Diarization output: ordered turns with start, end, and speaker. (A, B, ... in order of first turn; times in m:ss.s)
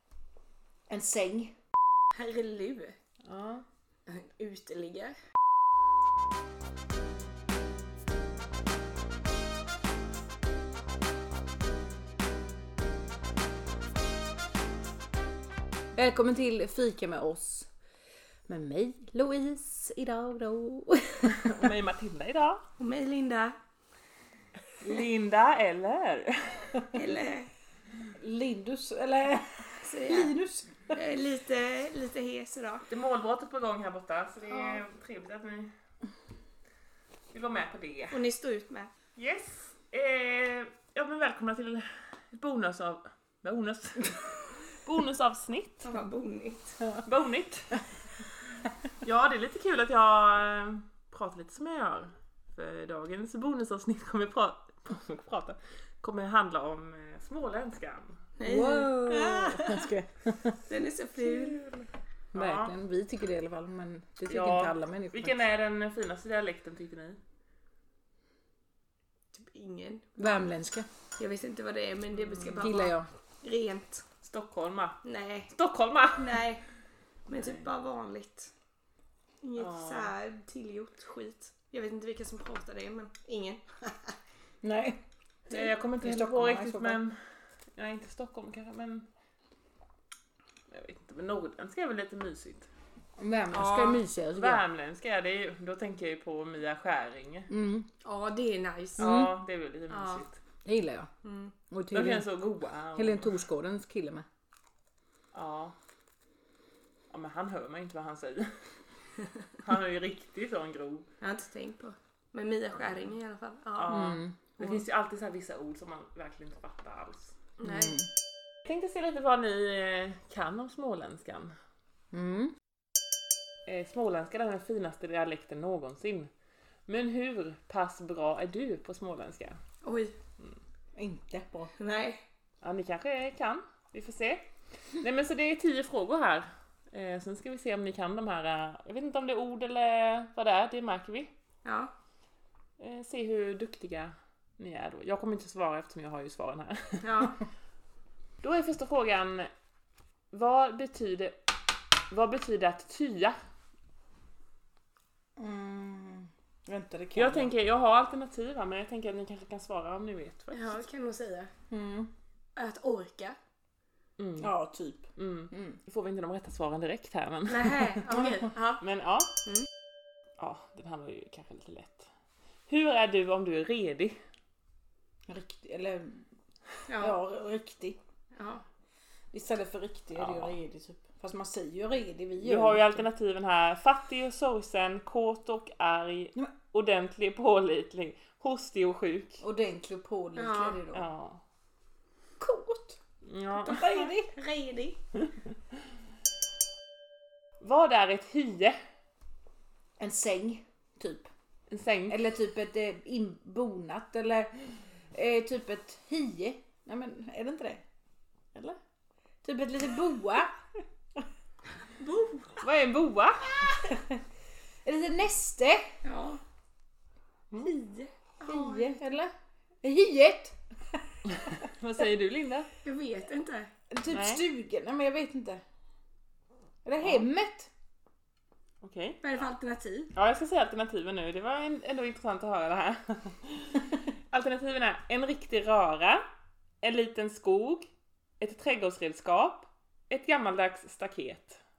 0:00.9-0:01.5 A
0:02.2-0:03.0 B
0:03.2-0:03.6 C
0:04.1-0:05.2 B
0:16.0-0:17.7 A
0:18.5-0:21.8 A
0:21.3-0:22.6 C
0:22.8-0:23.6 B
0:24.8-0:26.9 C
0:26.9-0:27.5 B
0:28.2-0:30.9 A
0:29.8-0:30.3 B
0:30.9-0:32.9 B
0:32.9-0:35.7 C
0:34.5-0:34.8 B
0:37.3-0:38.2 C
0:38.1-0:38.9 B
0:39.2-0:45.9 C
0:45.8-0:46.8 B
0:47.0-0:47.8 C
0:49.0-0:58.2 C
0:58.4-0:59.9 B
0:58.4-1:00.6 A
1:00.7-1:01.6 B
1:01.2-1:02.8 C
1:02.3-1:05.4 A
1:04.3-1:07.2 C
1:09.3-1:10.4 B
1:10.2-1:10.9 A
1:11.2-1:14.0 B
1:12.2-1:12.8 C
1:12.6-1:13.1 A
1:14.2-1:15.0 C
1:15.0-1:15.5 B
1:15.5-1:16.4 C
1:16.2-1:16.6 B
1:17.3-1:18.5 B
1:19.4-1:24.2 B
1:19.6-1:20.1 C
1:24.6-1:25.0 A
1:25.5-1:27.2 C
1:26.0-1:27.0 A
1:27.8-1:29.1 C
1:30.7-1:32.7 C
1:33.2-1:34.6 A
1:33.5-1:34.0 B
1:34.3-1:37.5 C
1:37.5-1:37.9 A
1:38.0-1:39.2 B
1:39.0-1:39.3 A
1:39.0-1:40.4 C
1:39.9-1:40.3 B
1:40.6-1:41.1 A
1:41.2-1:41.6 B
1:41.7-1:42.3 A
1:41.9-1:43.4 C
1:43.0-1:44.2 A
1:45.3-1:45.8 C
1:47.1-1:48.6 C
1:49.6-1:51.1 C
1:51.2-1:54.8 B
1:53.8-1:57.4 C
1:53.9-1:54.4 A
1:57.6-1:58.0 B
1:57.6-1:58.1 A
1:58.6-2:01.5 C
2:02.1-2:02.6 A
2:03.7-2:06.3 C
2:06.9-2:09.6 C
2:09.8-2:10.2 B
2:11.0-2:11.7 A
2:11.8-2:12.2 B
2:12.6-2:14.4 C
2:15.0-2:21.3 C
2:21.6-2:21.9 B
2:22.8-2:27.3 C
2:27.0-2:27.4 B
2:28.4-2:29.5 C
2:30.3-2:31.4 C
2:32.1-2:33.4 C
2:35.4-2:37.5 A
2:37.2-2:40.8 C
2:40.5-2:41.5 B
2:41.7-2:42.1 A
2:42.6-2:43.4 B
2:44.2-2:44.5 C
2:44.4-2:45.8 A
2:45.2-2:48.0 C
2:47.5-2:48.8 B
2:48.8-2:49.3 C
2:50.4-2:52.1 C
2:52.7-2:54.2 C
2:55.3-2:56.3 A
2:56.9-2:57.2 B
2:57.0-2:58.0 A
2:58.4-2:58.6 B
2:59.3-3:03.0 A
3:00.2-3:00.5 C
3:02.4-3:09.4 C
3:09.4-3:11.1 A
3:10.4-3:10.8 B
3:10.9-3:11.4 C
3:12.4-3:13.0 A
3:13.2-3:13.9 C
3:13.6-3:15.0 B
3:13.6-3:14.3 A
3:17.6-3:18.8 C
3:20.0-3:21.3 A
3:21.7-3:22.2 C
3:22.1-3:24.6 A
3:25.1-3:27.8 A
3:29.4-3:30.6 A
3:31.9-3:32.6 B
3:32.6-3:33.9 C
3:33.8-3:34.2 A
3:34.8-3:35.9 A
3:36.0-3:36.4 B
3:37.6-3:39.3 A
3:38.4-3:39.0 B
3:39.8-3:41.0 A
3:41.3-3:42.7 C
3:42.8-3:43.7 B
3:43.9-3:45.6 A
3:44.1-3:44.4 C
3:46.8-3:47.7 A
3:48.8-3:49.2 C
3:49.2-3:50.1 B
3:50.1-3:56.2 C
3:56.8-4:01.6 C